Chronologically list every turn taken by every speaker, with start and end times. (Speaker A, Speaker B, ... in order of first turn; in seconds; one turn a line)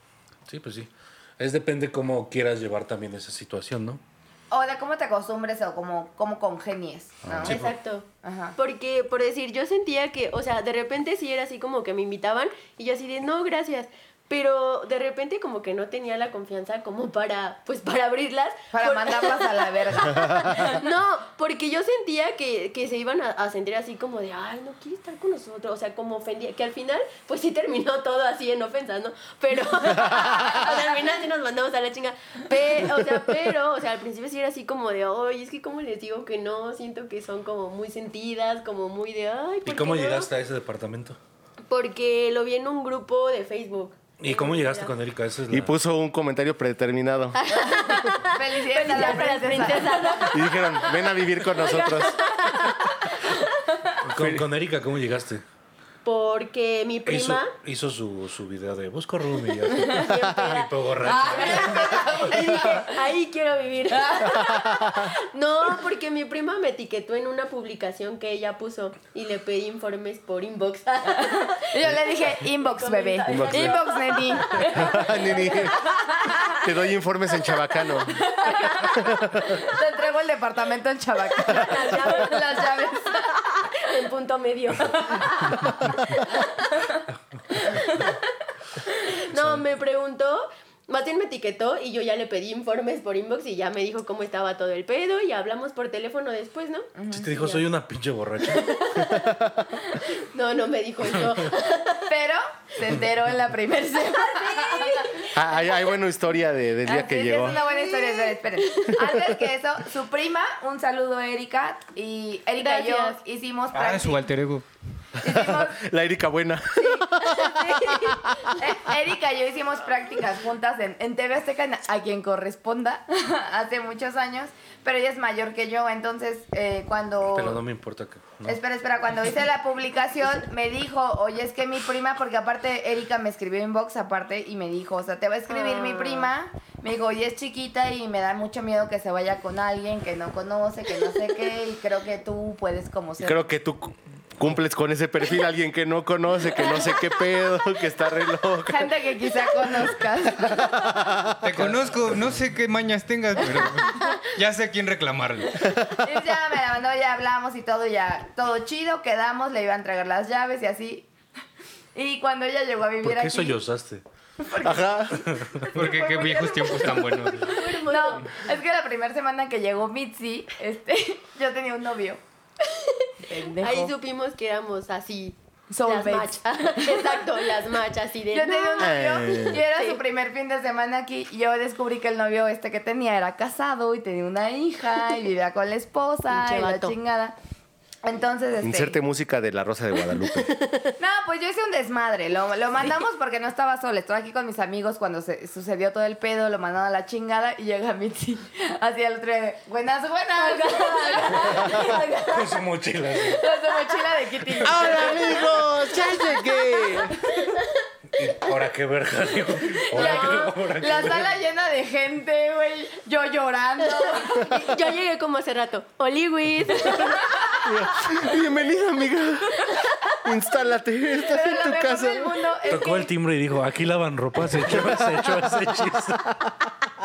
Speaker A: 0.5-4.0
Speaker B: 4.5-7.6
Speaker C: 7.3-7.6
Speaker A: 7.4-7.7
Speaker D: 7.4-40.3
Speaker B: 8.2-8.6
Speaker B: 18.7-20.8
Speaker A: 39.6-41.2
Speaker D: 41.7-44.9
Speaker A: 44.2-45.8
Speaker C: 45.5-47.4
Speaker D: 47.3-53.8
Speaker B: 47.7-50.3
Speaker C: 50.3-52.5
Speaker A: 54.0-55.4
Speaker C: 54.1-54.5
Speaker D: 56.0-57.5
Speaker A: 57.0-61.8
Speaker D: 59.7-76.7
Speaker B: 61.0-63.0
Speaker B: 63.9-64.7
Speaker B: 71.1-76.5
Speaker C: 73.3-73.8
Speaker C: 74.6-75.8
Speaker C: 76.6-78.2
Speaker B: 78.1-83.3
Speaker D: 78.2-79.1
Speaker C: 78.9-79.5
Speaker D: 81.3-86.8
Speaker B: 84.8-87.0
Speaker D: 87.6-88.1
Speaker B: 87.8-88.0
Speaker D: 89.1-96.9
Speaker A: 89.3-89.6
Speaker B: 96.9-97.6
Speaker A: 97.1-99.1
Speaker D: 98.5-99.4
Speaker D: 100.1-102.1
Speaker B: 102.1-105.3
Speaker D: 104.0-105.9
Speaker C: 105.3-107.6
Speaker B: 106.8-114.2
Speaker D: 107.5-109.2
Speaker D: 112.6-113.2
Speaker E: 113.7-114.6
Speaker C: 115.2-118.5
Speaker B: 115.2-115.8
Speaker D: 116.7-118.6
Speaker B: 118.5-127.6
Speaker A: 127.3-128.6
Speaker B: 128.4-143.4
Speaker D: 135.5-136.3
Speaker C: 143.2-148.9
Speaker B: 146.6-146.9
Speaker B: 148.7-151.0
Speaker C: 149.8-151.8
Speaker E: 151.4-155.7
Speaker D: 153.8-154.1
Speaker C: 155.6-156.0
Speaker B: 155.9-161.1
Speaker B: 161.9-163.6
Speaker A: 163.0-164.0
Speaker B: 164.4-172.2
Speaker C: 164.6-165.3
Speaker A: 165.2-165.5
Speaker E: 165.7-167.5
Speaker D: 167.4-168.4
Speaker D: 172.6-180.0
Speaker B: 173.2-173.9
Speaker B: 175.7-177.5
Speaker B: 178.3-187.3
Speaker C: 178.8-179.6
Speaker D: 186.3-186.9
Speaker B: 188.0-189.0
Speaker C: 188.6-190.5
Speaker D: 190.1-190.9
Speaker B: 191.0-202.1
Speaker D: 200.4-202.6
Speaker A: 201.8-203.4
Speaker B: 203.3-205.5
Speaker D: 203.3-207.7
Speaker C: 204.6-207.2
Speaker B: 207.2-207.6
Speaker A: 208.1-211.4
Speaker B: 209.6-214.7
Speaker D: 209.9-210.4
Speaker D: 213.8-217.5
Speaker B: 216.8-217.6
Speaker C: 217.7-222.4
Speaker D: 219.7-220.2
Speaker B: 221.1-223.1
Speaker A: 222.7-226.4
Speaker C: 224.5-226.6